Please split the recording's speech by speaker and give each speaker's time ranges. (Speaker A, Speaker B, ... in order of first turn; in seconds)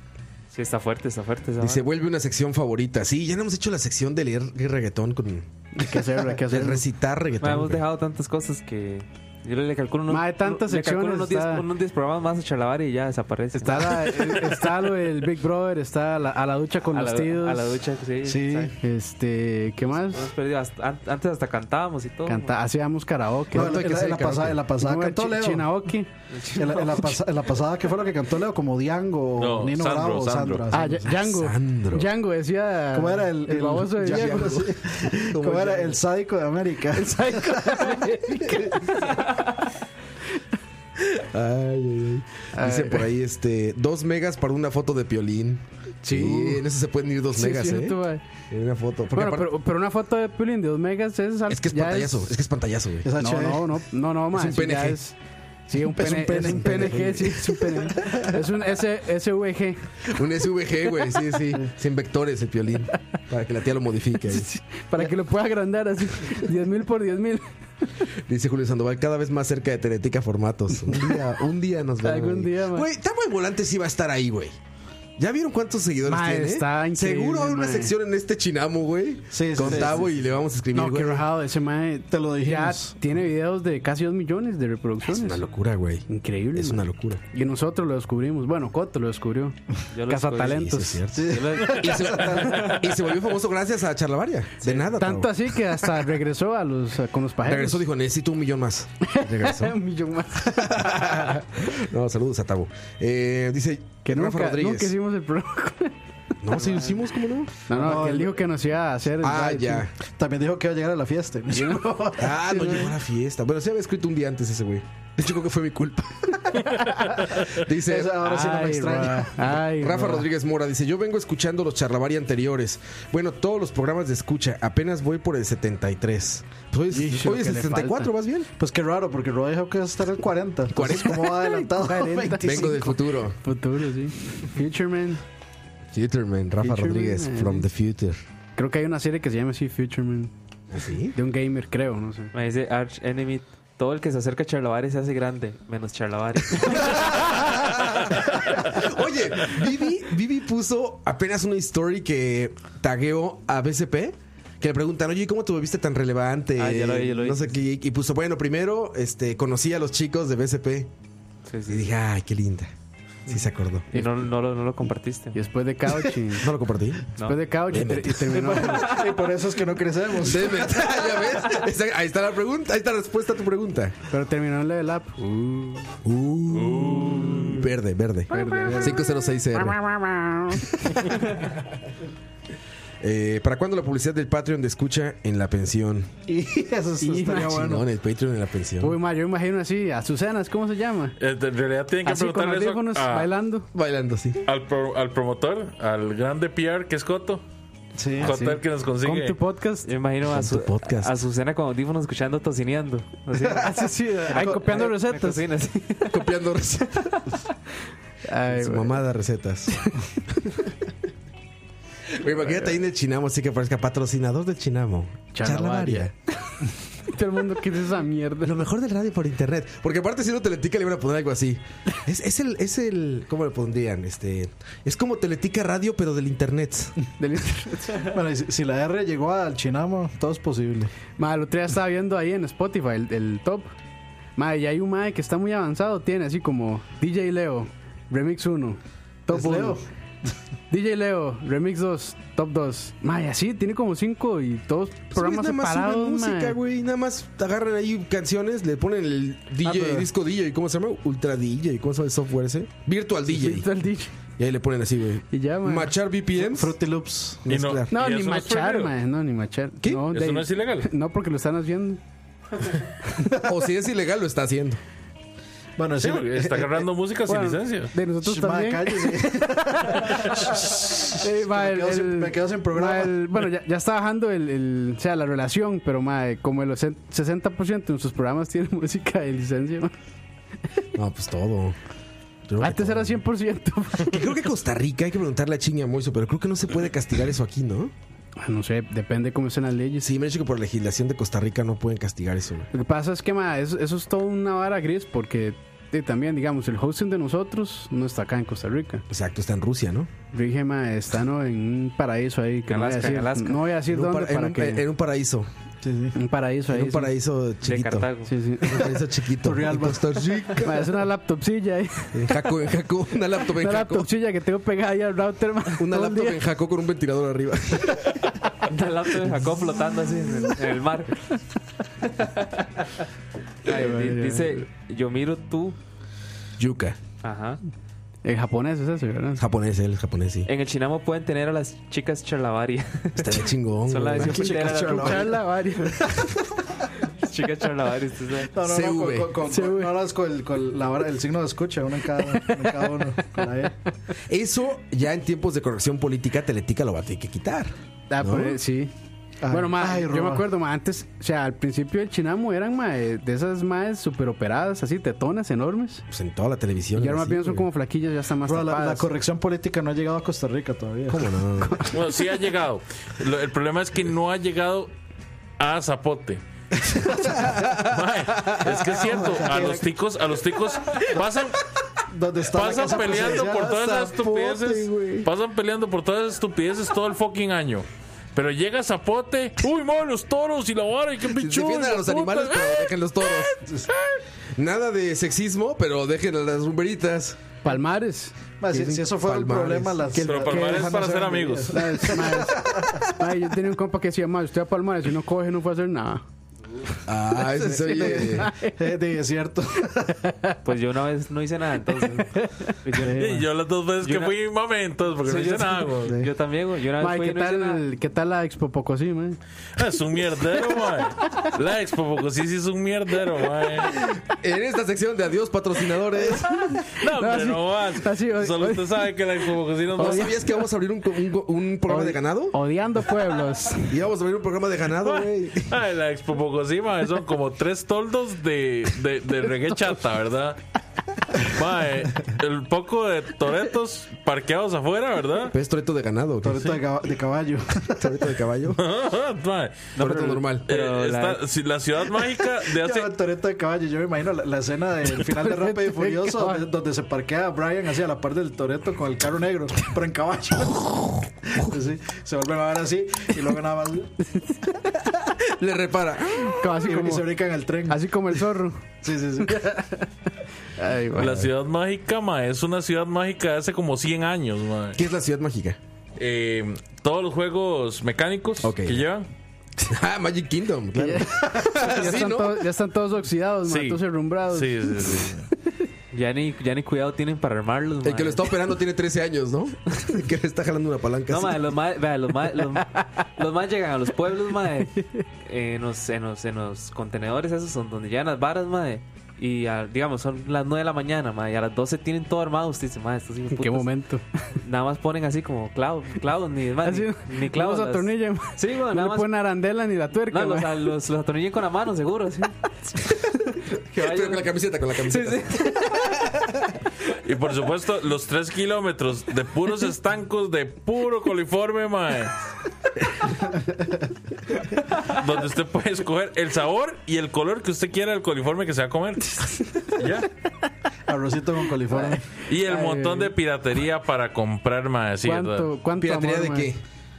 Speaker A: 0.5-1.8, 7.4-14.6, 16.9-18.7, 19.9-22.5, 26.3-27.1, 89.9-92.2, 142.3-147.2, 156.6-157.5, 161.5-161.9, 163.9-165.4, 168.6-168.9, 199.8-206.2, 302.7-303.7, 307.6-308.3, 318.6-321.2, 322.0-322.9, 323.6-325.8, 327.2-327.6, 330.4-335.3, 337.2-338.5, 400.6-403.4, 404.0-404.3, 405.2-407.8, 439.9-441.4, 476.1-478.4, 481.3-493.9, 494.6-499.3, 500.3-502.5, 503.7-506.1
Speaker B: 1.6-5.5, 6.5-7.8, 23.5-24.6, 31.2-32.1, 34.0-36.0, 41.0-48.0, 48.5-49.5, 51.5-53.1, 54.3-55.0, 56.4-57.5, 60.1-64.5, 68.3-74.5, 75.2-81.2, 85.1-87.2, 90.5-96.0, 97.4-99.8, 100.5-104.9, 106.4-107.8, 109.2-109.9, 112.2-116.8, 117.4-118.2, 119.5-128.5, 130.7-131.3, 132.4-133.4, 135.9-138.2, 140.7-141.2, 146.7-160.9, 161.7-162.7, 163.3-163.9, 166.4-167.0, 167.7-168.6, 170.2-173.9, 176.0-179.8, 180.8-181.2, 183.0-186.1, 187.3-189.0, 193.7-194.4, 200.2-201.1, 206.1-207.1, 208.5-209.8, 212.1-216.1, 218.4-226.9, 245.1-253.7, 254.4-256.8, 257.4-257.9, 259.8-260.1, 263.3-264.8, 280.9-281.8, 282.5-283.2, 284.0-287.9, 290.0-292.7, 299.1-300.1, 303.9-305.5, 306.7-308.1, 308.6-311.0, 312.1-314.1, 315.8-318.0, 326.6-327.0, 329.4-330.5, 333.1-335.3, 338.6-339.4, 344.3-348.6, 356.1-357.6, 361.1-361.9, 367.3-368.9, 373.6-375.3, 381.3-383.6, 384.6-387.5, 389.2-390.1, 397.1-398.5, 414.1-416.8, 420.0-422.6, 423.9-425.7, 435.5-436.8, 438.0-438.8, 440.0-440.6, 455.4-456.7, 461.1-461.5, 464.9-465.8, 468.6-469.0, 469.9-472.7, 478.0-481.7, 503.9-506.5, 526.0-526.8
Speaker C: 5.7-6.8, 10.1-11.6, 13.6-17.8, 18.8-20.2, 22.2-26.1, 30.7-34.7, 36.9-39.4, 42.5-43.1, 46.0-46.6, 47.3-48.2, 49.1-52.3, 53.2-55.1, 55.7-59.8, 64.3-67.4, 70.8-71.2, 72.0-72.9, 76.0-77.9, 80.7-85.4, 86.1-89.5, 90.1-91.1, 94.9-97.8, 99.1-101.3, 104.0-105.9, 107.7-109.8, 111.5-112.9, 116.7-117.2, 118.2-120.2, 126.9-128.1, 131.2-135.2, 136.6-137.7, 138.6-140.3, 141.1-142.3, 165.3-166.5, 167.2-169.1, 174.1-175.9, 178.3-181.1, 187.0-187.6, 188.8-191.1, 192.0-193.7, 198.2-199.9, 203.5-205.4, 208.3-209.0, 215.3-218.6, 227.2-228.1, 231.2-233.7, 234.3-239.8, 240.7-246.6, 249.6-250.1, 253.3-254.1, 255.3-255.9, 257.9-262.0, 267.2-270.3, 271.1-279.9, 282.6-284.2, 288.4-290.1, 292.7-299.0, 300.3-304.8, 306.1-307.1, 308.2-309.0, 310.6-312.4, 313.5-316.4, 323.7-324.6, 328.2-329.4, 334.4-336.2, 339.4-339.9, 342.4-342.7, 348.1-348.9, 349.5-356.0, 356.9-359.1, 361.6-361.9, 387.6-389.0, 390.1-390.9, 391.7-396.2, 397.3-398.7, 400.3-400.5, 402.2-402.7, 407.0-409.4, 416.4-419.0, 419.9-420.4, 421.9-423.9, 445.4-446.6, 456.5-457.3, 457.9-458.8, 459.5-460.1, 460.8-461.4, 470.9-475.7, 493.5-494.2, 496.8-500.8, 522.6-523.3, 525.2-526.7
Speaker D: 18.2-18.7, 23.5-25.8, 26.5-31.2, 32.9-37.8, 53.0-53.7, 55.8-58.2, 79.3-80.1, 82.1-83.0, 91.1-92.8, 107.7-108.4, 110.0-112.2, 117.7-119.3, 128.6-132.9, 168.3-170.7, 186.3-187.8, 197.9-198.5, 228.0-230.9, 239.3-239.8, 256.4-257.4, 265.8-266.8, 268.2-273.4, 305.8-306.2, 309.4-310.4, 338.5-343.8, 349.4-350.4, 358.4-361.3, 366.9-367.4, 368.9-369.8, 372.1-374.1, 388.6-393.1, 397.9-400.2, 402.9-403.4, 436.4-438.1, 442.7-454.1, 456.8-458.0, 459.0-459.7, 521.1-522.2
Speaker E: 29.4-30.6, 176.5-177.6, 191.2-193.3, 194.4-197.4, 198.2-199.4, 257.5-258.9, 260.1-260.9, 266.0-267.9, 361.9-364.9, 365.6-366.4, 367.1-371.6, 372.4-383.5, 390.2-391.8, 403.2-406.2, 409.8-413.9, 416.9-420.3, 425.0-430.6, 431.4-435.5, 438.8-439.9, 440.7-443.1, 461.2-465.0, 466.2-469.3, 473.6-475.5, 507.2-512.3, 514.9-520.3, 522.5-525.7